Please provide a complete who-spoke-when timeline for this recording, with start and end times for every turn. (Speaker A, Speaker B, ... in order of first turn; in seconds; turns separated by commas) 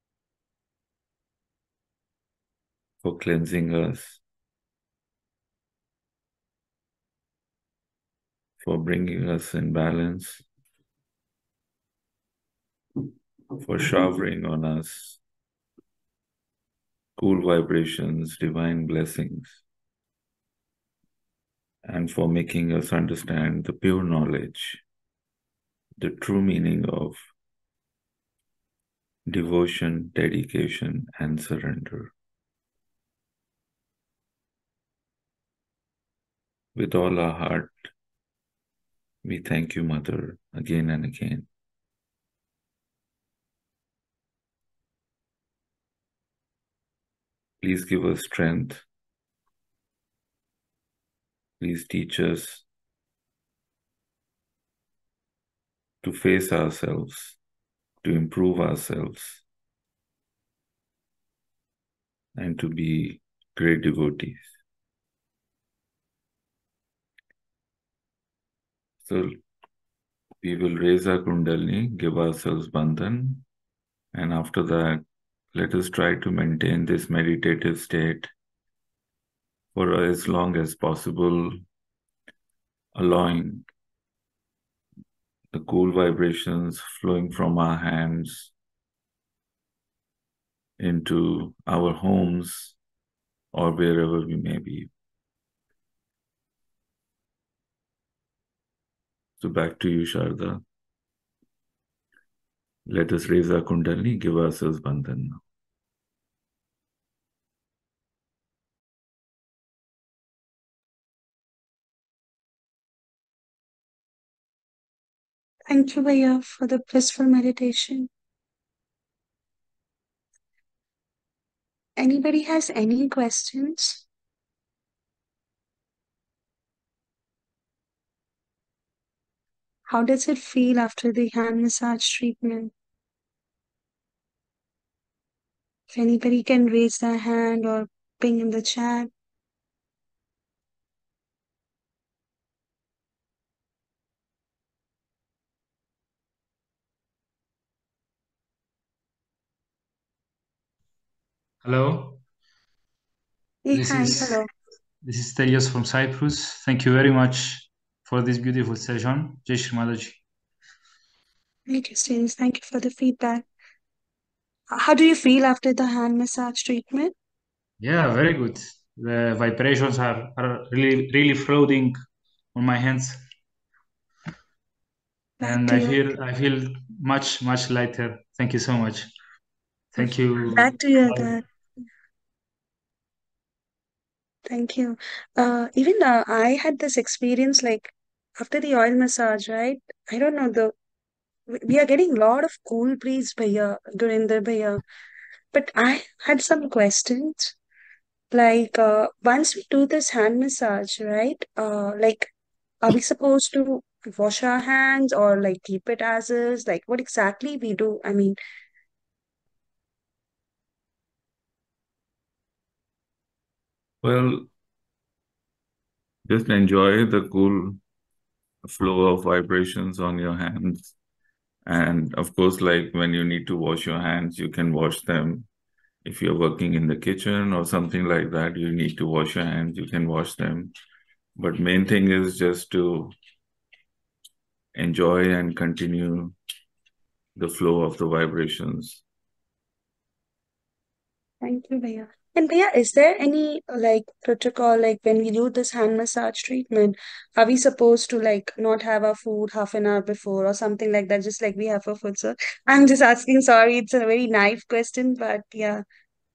Speaker A: 3.0-4.2, Speaker A: 8.6-10.4, Speaker A: 13.6-15.2, Speaker A: 17.1-19.6, Speaker A: 21.9-24.8, Speaker A: 26.0-27.2, Speaker A: 29.3-32.1, Speaker A: 36.7-37.9, Speaker A: 39.2-41.5, Speaker A: 47.6-48.8, Speaker A: 51.6-52.6, Speaker A: 56.0-57.4, Speaker A: 58.0-59.4, Speaker A: 62.4-64.5, Speaker A: 69.0-69.3, Speaker A: 70.4-73.4, Speaker A: 74.1-78.3, Speaker A: 79.7-81.5, Speaker A: 82.9-83.6, Speaker A: 85.5-88.5, Speaker A: 90.8-92.8, Speaker A: 93.5-94.9, Speaker A: 99.4-100.6, Speaker A: 102.8-105.4, Speaker B: 115.7-118.1, Speaker B: 122.0-124.0, Speaker B: 129.9-132.7, Speaker B: 135.9-139.1, Speaker C: 151.6-152.2, Speaker B: 153.6-154.5, Speaker C: 153.7-154.4, Speaker C: 155.0-160.2, Speaker B: 161.7-163.4, Speaker B: 164.7-167.1, Speaker C: 167.8-171.9, Speaker C: 172.5-173.2, Speaker B: 175.4-176.0, Speaker C: 175.4-179.1, Speaker C: 179.9-181.4, Speaker B: 180.0-181.4, Speaker B: 184.4-190.7, Speaker B: 191.5-194.8, Speaker B: 195.5-197.5, Speaker B: 198.3-202.3, Speaker B: 202.8-208.4, Speaker A: 214.0-214.5, Speaker A: 216.2-217.8, Speaker A: 218.7-220.9, Speaker A: 221.7-225.5, Speaker A: 226.0-230.7, Speaker A: 231.4-233.1, Speaker A: 234.7-236.3, Speaker A: 237.3-239.0, Speaker B: 241.4-255.8